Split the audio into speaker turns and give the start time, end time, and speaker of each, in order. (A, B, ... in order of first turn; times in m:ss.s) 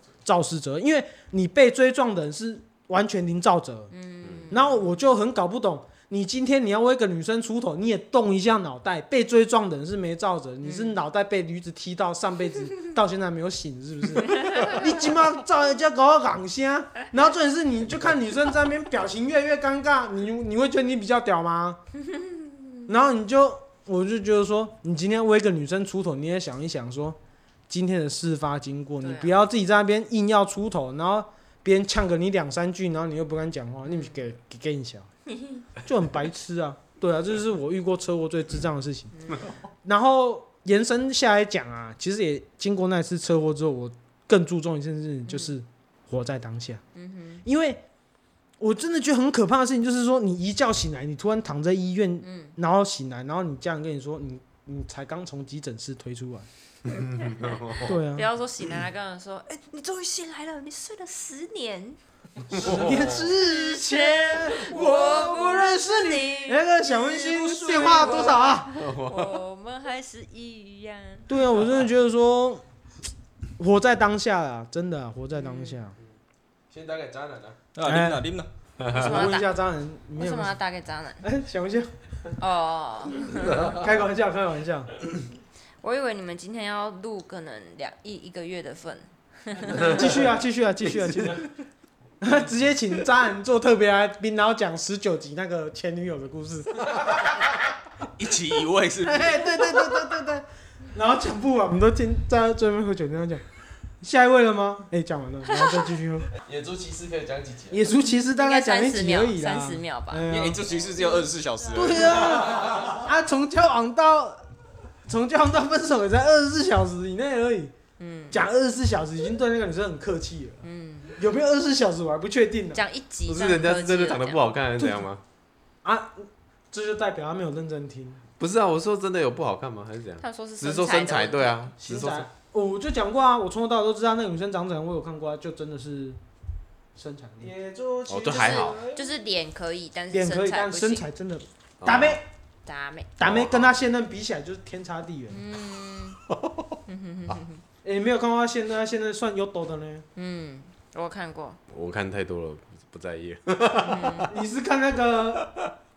0:00.2-0:03.9 A
0:03.9-0:04.8 B
0:04.2-0:04.5 C
0:04.5-0:21.8 A
0:10.6-0:11.0 B
0:14.4-0:14.8 B
0:22.1-0:22.8 B
0:22.9-0:27.2 A
0:27.7-0:35.1 A
0:29.0-0:29.3 B
0:33.9-0:34.2 B
0:35.3-0:35.6 B
0:35.8-0:39.2 A
0:39.8-0:46.8 A
0:45.3-0:45.5 B
0:46.9-0:47.4 B
0:47.4-0:47.8 A
0:48.6-0:56.5 A
0:52.2-0:52.5 B
0:57.0-0:57.9 C
0:57.1-1:02.0 B
0:57.8-0:58.2 A
1:02.5-1:08.7 A
1:02.6-1:02.9 C
1:02.6-1:11.3 B
1:08.7-1:09.4 C
1:11.3-1:12.6 A
1:13.6-1:16.0 A
1:15.3-1:15.8 B
1:16.7-1:17.6 D
1:17.7-1:18.5 E
1:17.8-1:18.3 A
1:18.8-1:19.2 C
1:18.9-1:20.6 A
1:18.9-1:19.5 B
1:20.2-1:21.2 B
1:21.2-1:21.9 A
1:22.4-1:23.7 B
1:23.5-1:23.8 C
1:23.5-1:25.0 A
1:25.8-1:30.0 B
1:29.7-1:31.4 A
1:32.2-1:37.1 A
1:38.2-1:39.9 E
1:39.0-1:43.4 A
1:44.0-1:46.3 A
1:46.4-1:47.8 D
1:47.7-1:50.6 A
1:48.3-1:50.2 B
1:50.3-1:52.4 E
1:50.9-1:52.4 B
1:51.7-1:54.4 A
1:52.5-1:52.9 D
1:55.0-1:57.7 A
1:58.0-1:58.4 B
1:58.3-2:02.8 A
2:00.6-2:01.2 B
2:02.7-2:04.6 B
2:03.2-2:05.2 C
2:05.8-2:08.2 A
2:08.4-2:12.3 C
2:10.2-2:11.6 B
2:11.8-2:16.2 A
2:17.0-2:19.1 A
2:17.5-2:18.2 D
2:18.1-2:18.8 C
2:18.2-2:21.0 B
2:20.1-2:22.2 A
2:21.8-2:22.2 C
2:22.6-2:23.1 B
2:23.2-2:25.4 A
2:23.2-2:23.8 C
2:25.3-2:26.2 B
2:26.3-2:26.7 C
2:26.9-2:27.6 B
2:27.8-2:30.0 A
2:30.2-2:31.6 B
2:31.7-2:34.3 C
2:33.7-2:34.3 B
2:34.2-2:35.5 A